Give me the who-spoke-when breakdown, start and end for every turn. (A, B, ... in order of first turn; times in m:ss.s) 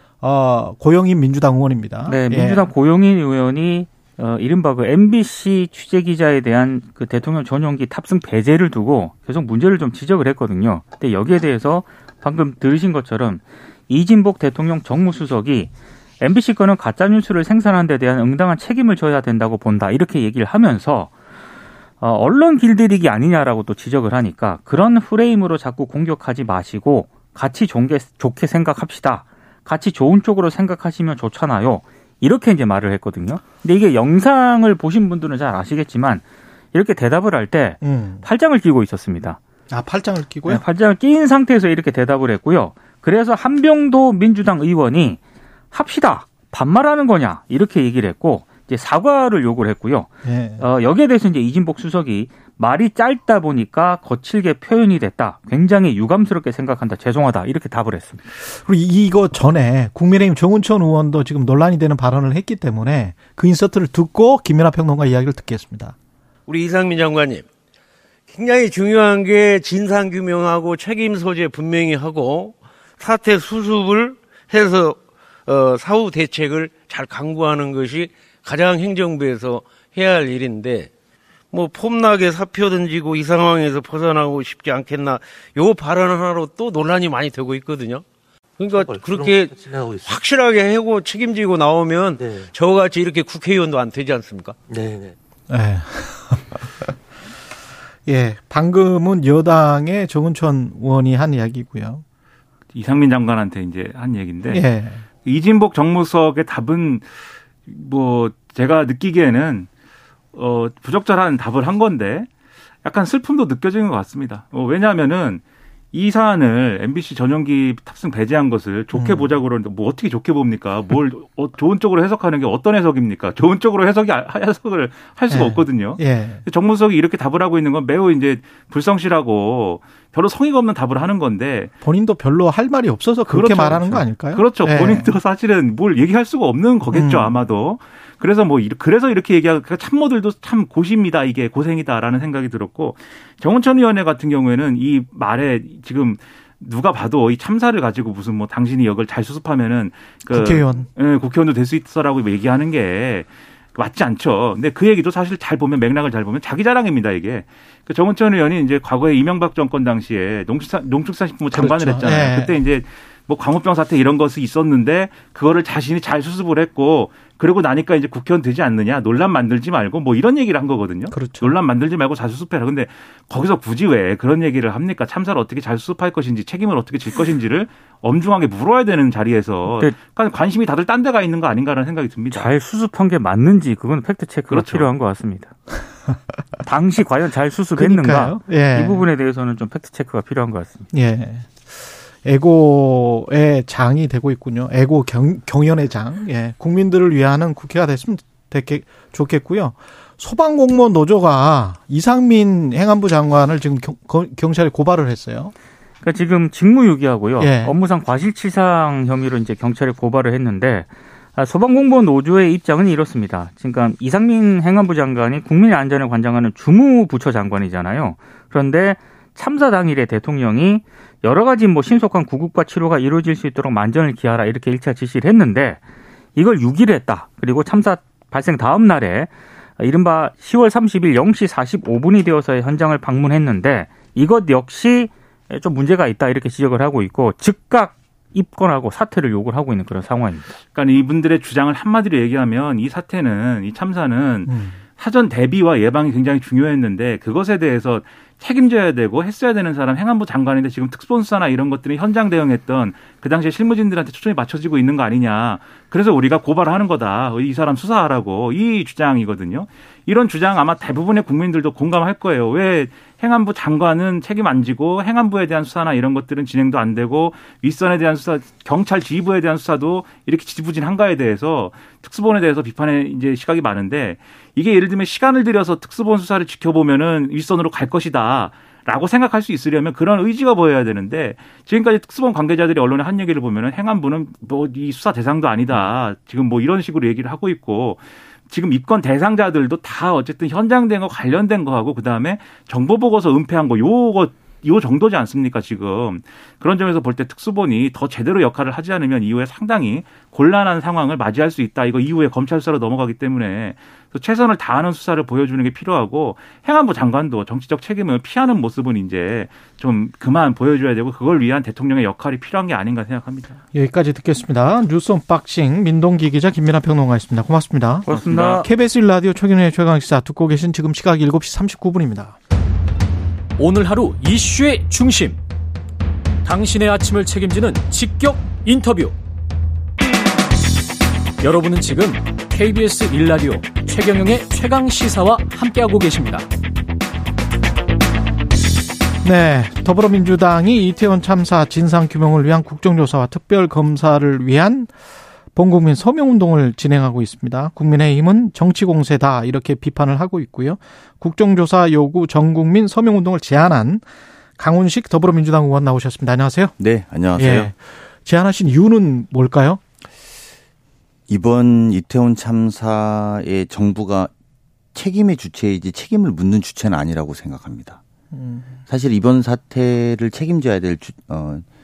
0:00.2-0:02.7 A
0:02.1-0:21.1 B
0:22.0-0:39.4 B
0:37.8-0:38.2 A
0:39.7-0:40.6 A
0:40.5-0:45.2 B
0:45.7-0:58.2 B
0:50.2-0:50.6 A
0:58.5-1:05.9 A
1:06.5-1:07.4 C
1:08.3-1:20.9 C
1:21.5-1:28.0 C
1:28.6-1:35.0 C
1:35.5-1:36.4 A
1:38.0-1:42.0 A
1:42.7-1:44.7 D
1:44.5-1:45.0 A
1:45.2-1:49.7 D
1:50.3-1:52.3 D
1:52.8-1:55.4 D
1:55.9-2:11.7 D
1:58.9-1:59.3 A
2:05.3-2:06.4 A
2:11.8-2:15.2 A
2:13.3-3:02.5 D
2:16.9-2:17.3 A
2:30.3-2:30.9 A
2:41.5-2:42.5 A
2:51.1-2:51.5 A
2:59.7-2:59.9 B
3:02.3-3:05.5 B
3:04.5-3:04.9 D
3:06.6-3:10.9 B
3:07.8-3:09.0 A
3:10.9-3:25.5 A
3:26.0-3:45.8 B
3:27.4-3:27.7 A
3:46.4-4:00.6 B
4:00.7-5:13.6 D
4:04.4-4:04.8 A
5:13.7-5:22.4 A
5:18.0-5:18.6 B
5:23.6-5:25.4 E
5:26.4-5:29.2 E
5:31.4-5:36.4 E
5:39.2-5:44.9 A
5:45.5-5:54.0 A
5:54.6-5:56.7 A
5:56.8-5:57.7 F
5:57.3-5:59.8 A
6:01.3-6:04.3 F
6:04.9-6:08.0 F
6:08.3-6:08.7 A
6:08.9-6:11.6 F